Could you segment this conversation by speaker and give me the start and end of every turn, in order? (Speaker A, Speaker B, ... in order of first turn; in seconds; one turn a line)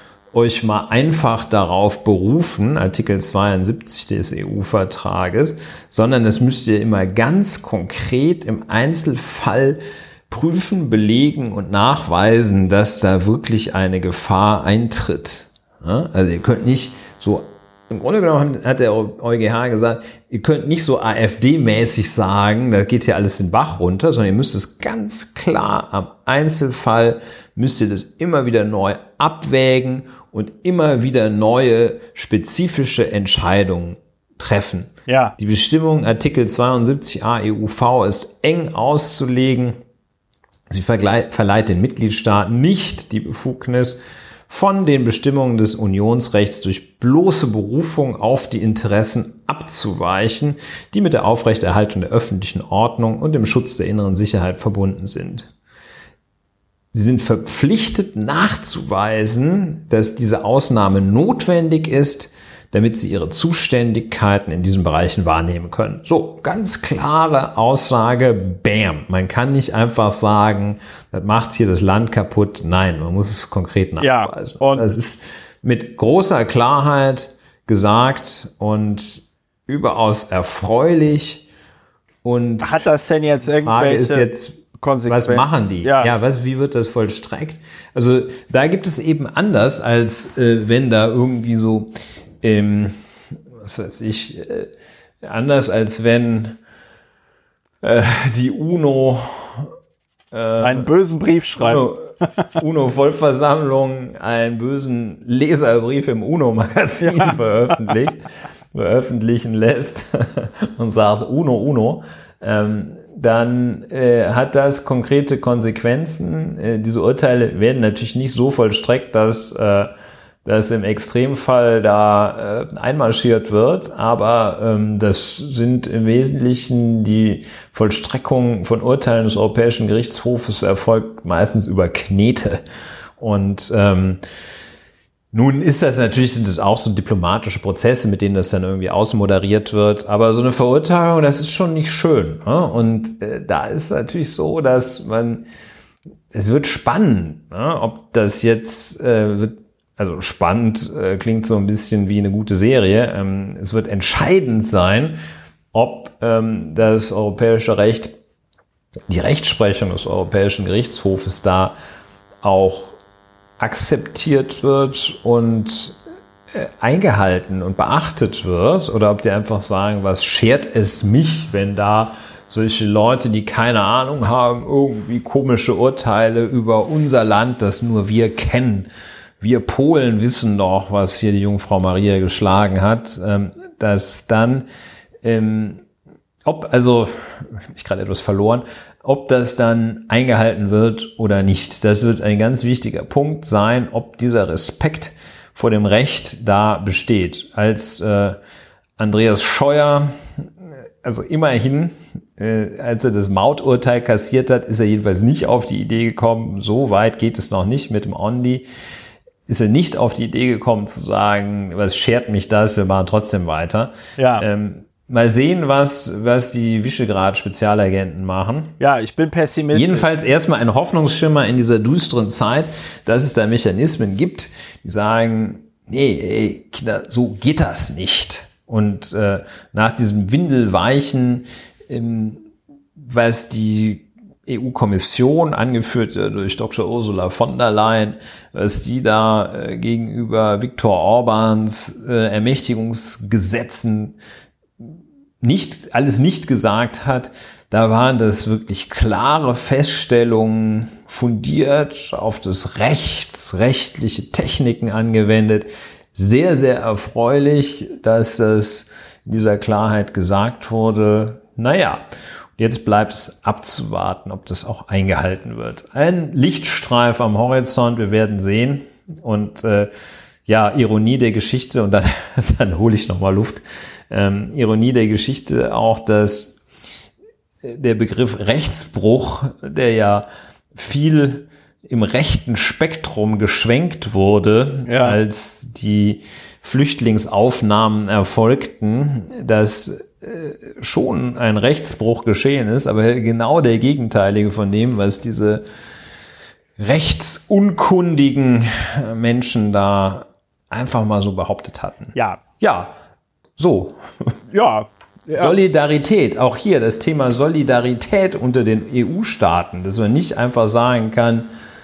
Speaker A: 0.3-39.8
Speaker B: 35.1-35.3
Speaker A: 40.7-55.5
Speaker A: 56.9-81.5
Speaker B: 74.0-74.8
Speaker A: 82.2-82.8
Speaker B: 82.6-86.1
Speaker A: 83.5-94.7
Speaker A: 95.2-96.6
Speaker A: 97.8-99.7
Speaker A: 100.3-100.8
Speaker B: 100.6-101.8
Speaker A: 101.6-119.9
Speaker B: 107.0-107.3
Speaker A: 120.4-132.6
Speaker A: 133.2-134.2
Speaker A: 135.3-145.4
Speaker A: 146.3-155.2
Speaker A: 155.7-158.2
Speaker A: 159.1-161.7
Speaker A: 162.4-163.0
Speaker A: 163.6-165.9
Speaker A: 166.5-178.9
Speaker A: 179.4-184.7
Speaker A: 185.2-185.8
Speaker A: 186.4-198.4
Speaker A: 199.0-200.5
Speaker A: 201.0-208.7
Speaker A: 209.5-218.8
Speaker B: 214.2-214.4
Speaker B: 218.8-220.1
Speaker A: 219.7-232.4
Speaker A: 233.0-244.2
Speaker A: 244.8-262.0
Speaker A: 262.6-269.9
Speaker A: 270.4-276.6
Speaker A: 277.6-295.6
Speaker B: 284.8-285.2
Speaker A: 296.8-302.9
Speaker B: 302.1-302.4
Speaker A: 303.6-304.3
Speaker B: 304.5-305.5
Speaker A: 305.3-311.5